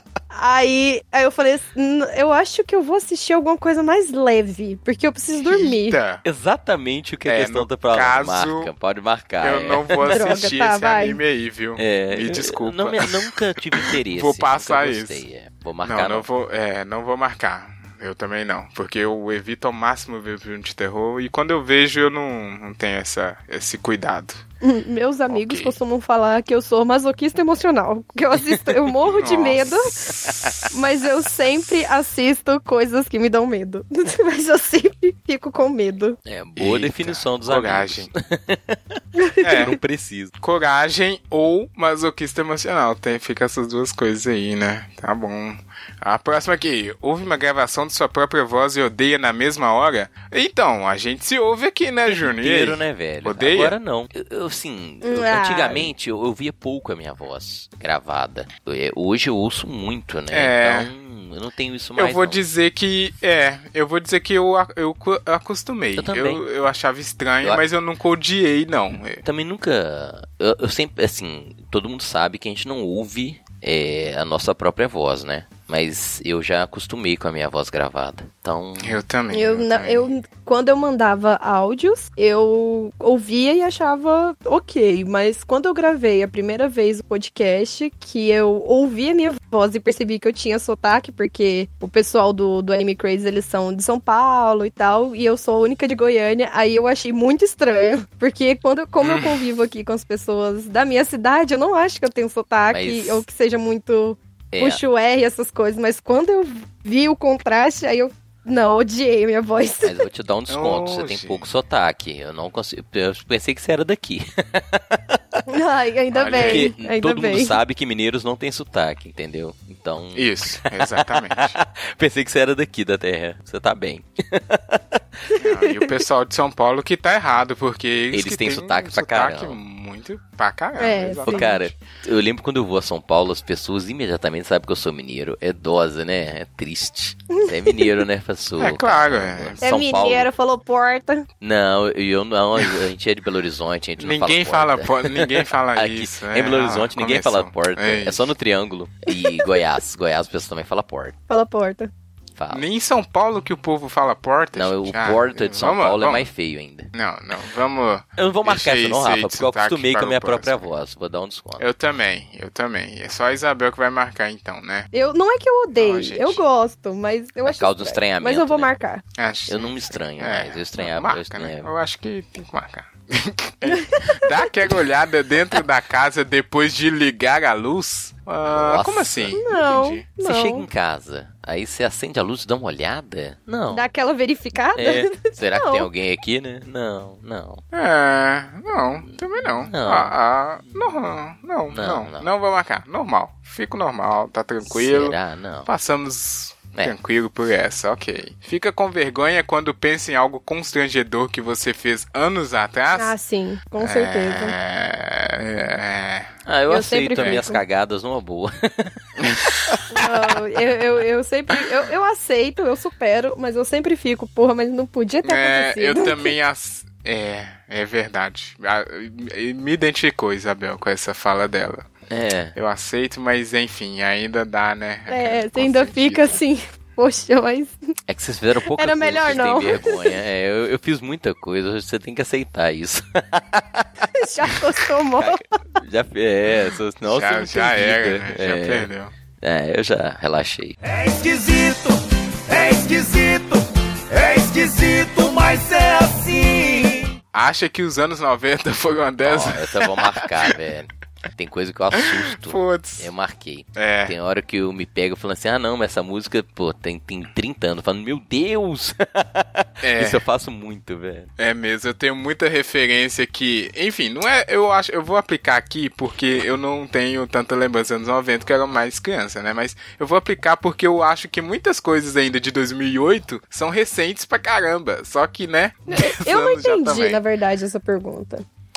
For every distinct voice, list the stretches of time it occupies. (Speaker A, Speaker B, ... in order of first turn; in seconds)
Speaker A: 0.3-6.0, 10.1-11.2, 24.6-30.1, 30.7-36.2, 39.2-39.7, 55.0-55.9, 79.3-110.0, 115.5-117.6, 125.3-125.9, 130.8-131.5, 137.3-138.0, 139.6-141.3, 151.3-151.9, 164.9-169.0, 173.7-174.4, 179.3-180.7, 183.7-185.9, 203.0-204.6, 206.7-207.6, 209.9-216.3, 225.1-227.8, 228.8-230.1, 234.1-235.4, 275.9-278.4
Speaker B: 5.4-6.2, 7.3-8.7, 9.4-15.2, 15.8-24.4, 25.3-25.8, 29.0-29.7, 36.6-38.1, 39.4-39.8, 40.4-53.7, 60.3-60.9, 62.0-69.2, 78.8-80.1, 99.0-99.4, 110.5-111.5, 116.1-116.7, 120.1-121.6, 125.4-131.7, 138.6-139.6, 142.6-142.9, 144.0-148.3, 152.5-156.3, 156.9-160.7, 161.6-164.9, 165.7-166.4, 169.1-180.1, 187.7-203.1, 203.8-206.3, 207.2-207.4, 209.2-209.5, 215.2-221.9, 222.6-226.4, 236.5-239.1, 247.3-250.6, 251.9-253.1, 253.8-254.1, 259.8-260.2, 261.4-277.2
Speaker C: 6.2-10.4, 11.8-16.3, 30.1-30.6, 36.3-40.3, 52.1-62.4, 66.0-66.4, 69.2-79.0, 102.7-103.2, 104.5-104.8, 109.8-115.2, 116.3-125.3, 128.1-129.6, 131.3-140.3, 141.4-151.2, 152.4-152.6, 154.6-156.9, 158.2-161.6, 167.4-168.7, 169.5-171.7, 178.4-179.4, 180.2-183.9, 184.8-187.6, 189.1-190.1, 191.7-192.3, 194.7-195.7, 206.5-210.1, 222.1-222.6, 228.1-233.9, 235.2-238.9, 239.4-240.8, 249.2-261.3
Speaker D: 240.8-247.2